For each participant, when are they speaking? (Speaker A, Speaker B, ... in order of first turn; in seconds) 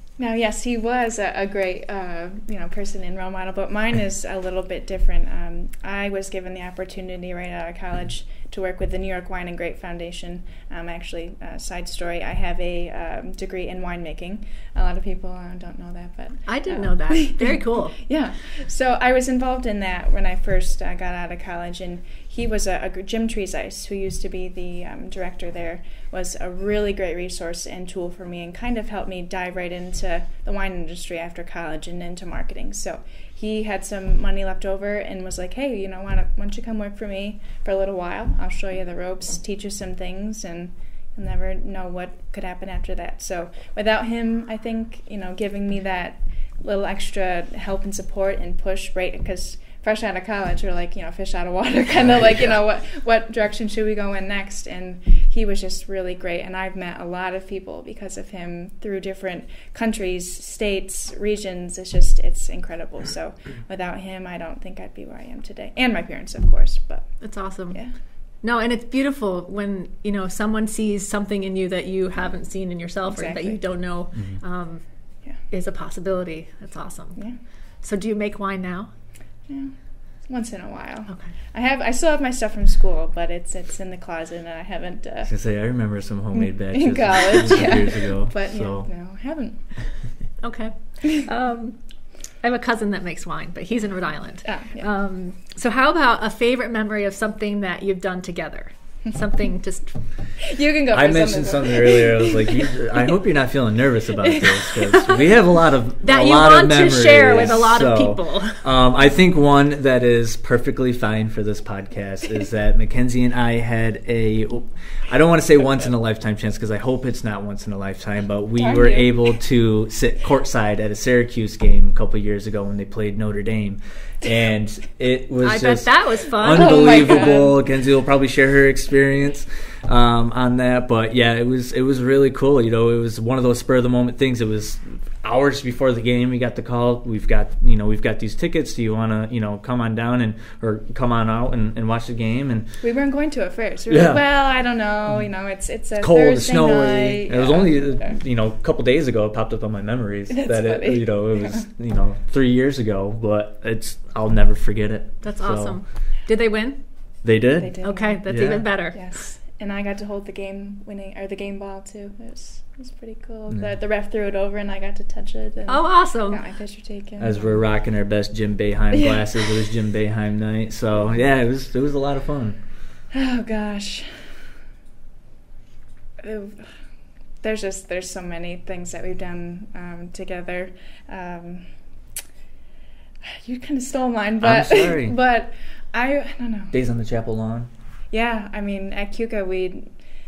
Speaker A: 0.2-68.0, 73.1-73.6, 79.5-85.3, 86.3-90.1, 94.4-94.9, 100.4-102.7, 104.3-104.8, 118.6-119.3, 126.5-127.5, 142.8-148.2, 150.3-151.7, 157.6-167.6, 173.1-174.4, 176.2-176.9, 177.4-181.7, 183.2-186.8, 188.1-190.0
Speaker B: 16.5-18.0, 67.2-78.9, 81.1-81.3, 90.4-100.1, 106.0-108.7, 125.4-127.5, 155.2-156.8, 157.8-159.1, 165.7-166.4
Speaker C: 74.1-74.4, 85.3-88.9, 100.9-142.8, 143.9-144.2, 146.0-155.8, 157.2-158.7, 167.2-172.6, 184.4-185.2, 186.7-187.7